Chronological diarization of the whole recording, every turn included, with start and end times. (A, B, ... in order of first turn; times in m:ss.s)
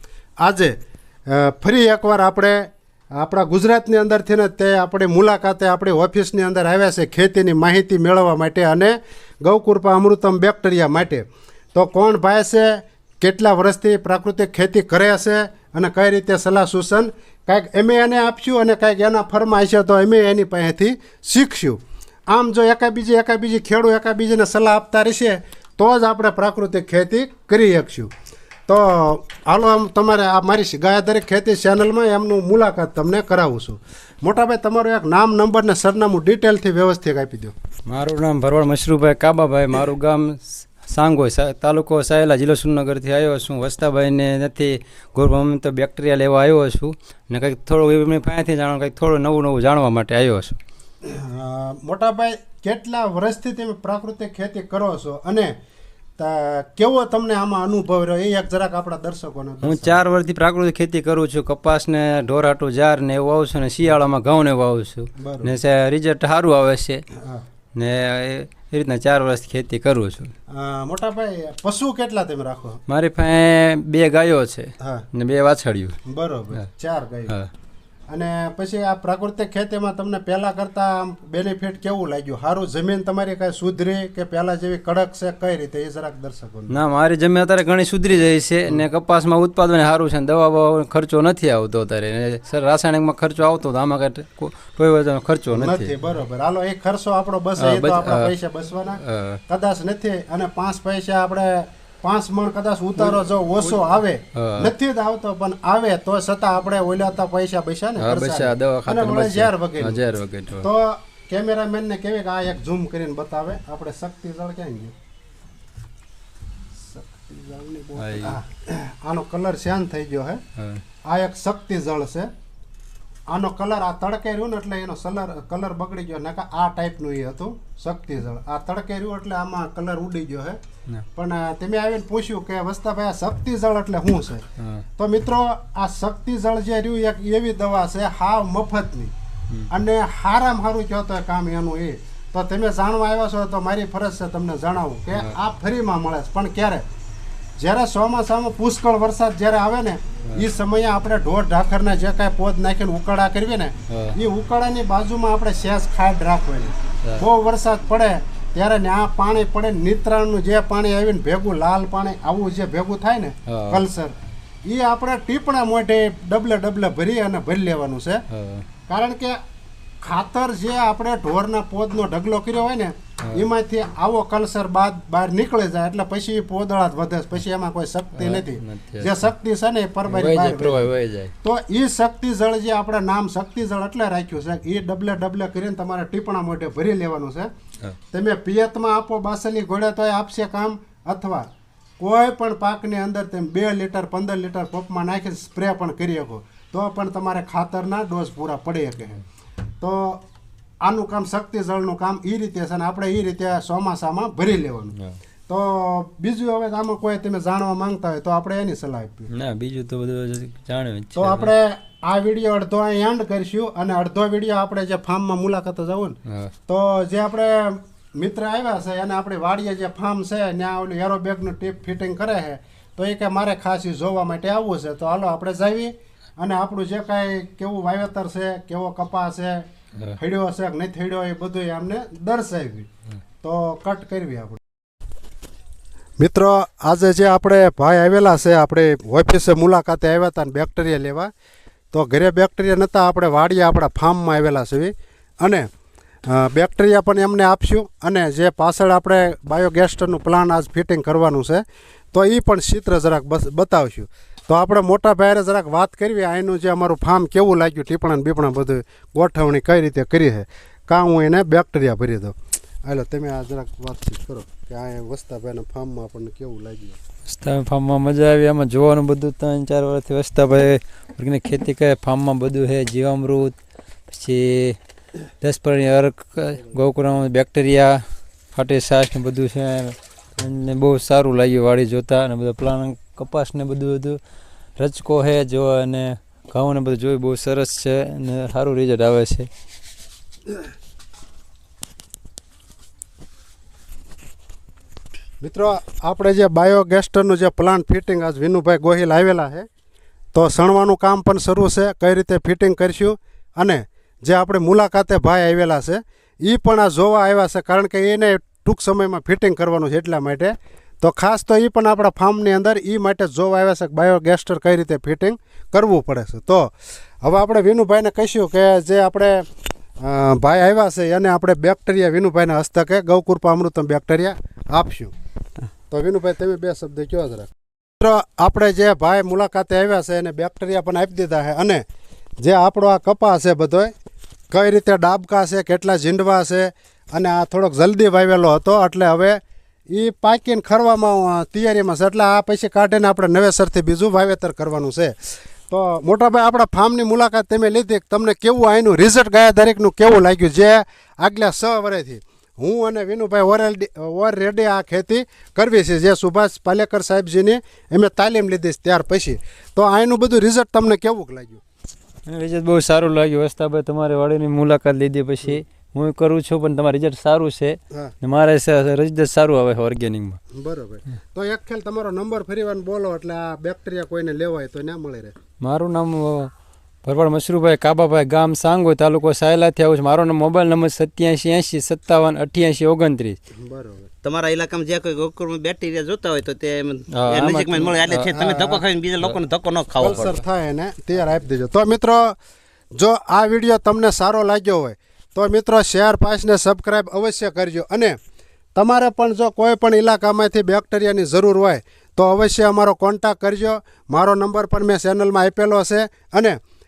0:00.4-0:00.8 A
0:01.3-0:28.1 A
0:28.7-0:37.5 A
0:37.9-0:50.6 B
0:51.0-0:55.5 A
0:56.2-1:00.0 A
0:59.6-1:07.0 B
1:05.2-1:05.5 A
1:07.2-1:07.4 A
1:07.8-1:10.3 B
1:10.5-1:12.8 A
1:12.9-1:16.0 B
1:14.8-1:15.0 A
1:16.0-1:17.3 A
1:18.1-1:26.7 A
1:26.7-1:35.9 B
1:35.5-1:50.0 A
1:37.6-1:38.3 B
1:39.0-1:39.4 B
1:43.0-1:44.7 B
1:48.0-1:50.7 B
1:50.6-1:54.9 A
1:56.8-2:00.4 A
1:58.0-1:58.4 B
2:00.6-2:00.8 B
2:01.0-2:02.3 A
2:03.3-2:10.6 A
2:11.1-2:14.4 A
2:14.6-2:14.8 B
2:15.0-2:19.1 A
2:19.7-2:26.8 A
2:27.6-2:48.2 A
2:33.9-2:34.2 B
2:43.5-2:43.8 B
2:48.3-2:48.6 B
2:48.9-2:49.4 A
2:50.0-3:00.9 A
2:58.2-2:59.2 B
3:00.0-3:01.3 B
3:01.4-3:07.5 A
3:08.1-3:11.5 A
3:12.0-3:19.2 A
3:19.8-3:20.2 A
3:20.8-3:24.9 A
3:25.5-3:29.3 A
3:29.3-3:31.5 B
3:31.2-3:52.9 A
3:36.2-3:36.5 B
3:53.4-3:54.6 A
3:56.2-4:01.3 A
4:01.9-4:05.7 A
4:06.3-4:22.3 A
4:22.8-4:27.0 A
4:27.2-4:33.5 B
4:34.1-4:34.8 B
4:35.4-4:38.0 B
4:38.5-4:44.2 B
4:44.8-4:49.5 B
4:55.4-4:59.7 A
5:00.3-5:16.7 A
5:17.2-5:19.4 A
5:20.0-5:25.1 A
5:25.9-5:27.5 A
5:28.0-5:31.8 A
5:32.4-5:33.9 A
5:34.5-6:01.6 A
6:02.3-6:10.4 B
6:10.5-6:15.3 A
6:15.6-6:16.5 B
6:17.0-6:23.4 B
6:23.6-6:24.1 A
6:24.2-6:30.4 C
6:27.1-6:29.4 B
6:28.3-6:28.8 A
6:30.0-6:32.3 A
6:30.0-6:30.3 B
6:33.0-6:38.2 A
6:38.7-6:46.6 A